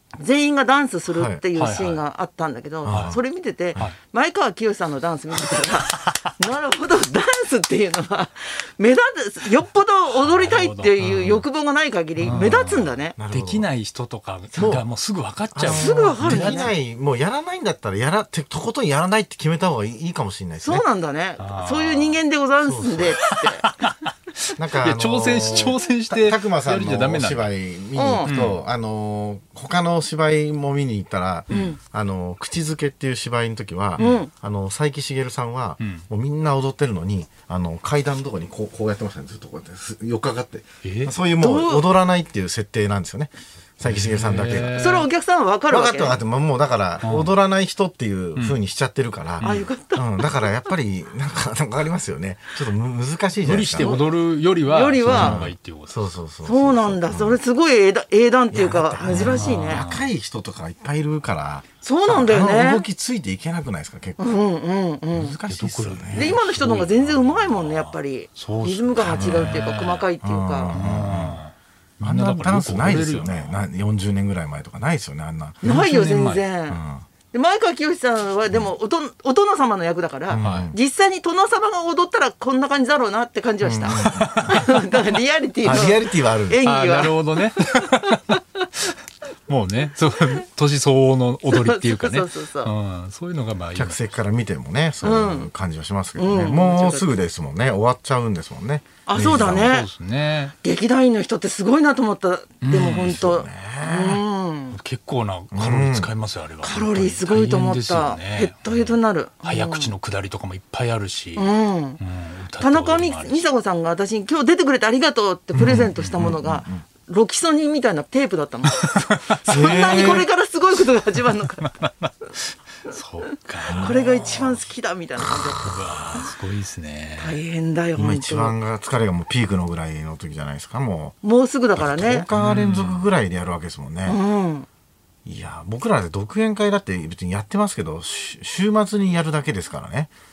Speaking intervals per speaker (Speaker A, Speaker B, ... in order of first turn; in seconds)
Speaker A: 0.2-13.2, 15.7-16.7, 20.6-23.7, 28.0-28.3, 31.5-31.8, 34.0-34.3, 41.4-41.9, 44.8-46.2, 49.4-50.4, 53.8-55.4, 56.5-59.9, 61.8-62.9, 64.2-65.4, 66.1-70.7, 75.6-76.8, 77.3-87.2, 91.5-92.7, 95.0-95.5, 96.2-97.2, 99.1-99.9, 100.6-104.8, 106.6-109.9, 111.4-112.0, 112.6-118.8, 119.4-121.7, 123.7-126.2, 127.2-128.6, 131.2-132.3, 134.1-134.7
Speaker B: 1.1-1.4, 2.9-3.2, 12.2-12.6, 13.2-13.7, 14.6-14.8, 15.5-20.9, 22.6-23.2, 24.6-44.8, 45.7-54.0, 55.1-57.4, 58.5-64.3, 65.1-66.4, 69.1-69.6, 70.2-71.4, 72.0-75.6, 76.7-77.0, 80.3-80.8, 83.6-84.8, 85.6-86.6, 93.8-99.7, 102.7-104.2, 105.5-106.1, 115.5-116.8, 119.5-120.3, 123.7-124.0, 128.0-131.2, 131.8-134.2, 135.2-140.1
Speaker C: 1.5-2.0, 2.9-3.1, 5.6-6.2, 10.1-11.4, 12.2-16.7, 21.4-22.2, 23.2-27.5, 28.2-28.6, 31.5-31.7, 35.8-36.0, 40.8-41.1, 43.9-45.1, 47.0-47.4, 49.4-49.7, 53.4-56.1, 59.1-60.1, 65.5-70.1, 70.7-73.6, 75.6-76.5, 80.4-80.7, 86.7-88.9, 89.5-94.0, 99.2-100.5, 102.6-103.2, 104.7-113.5, 118.7-119.9, 121.7-124.6, 125.2-127.4, 132.3-133.1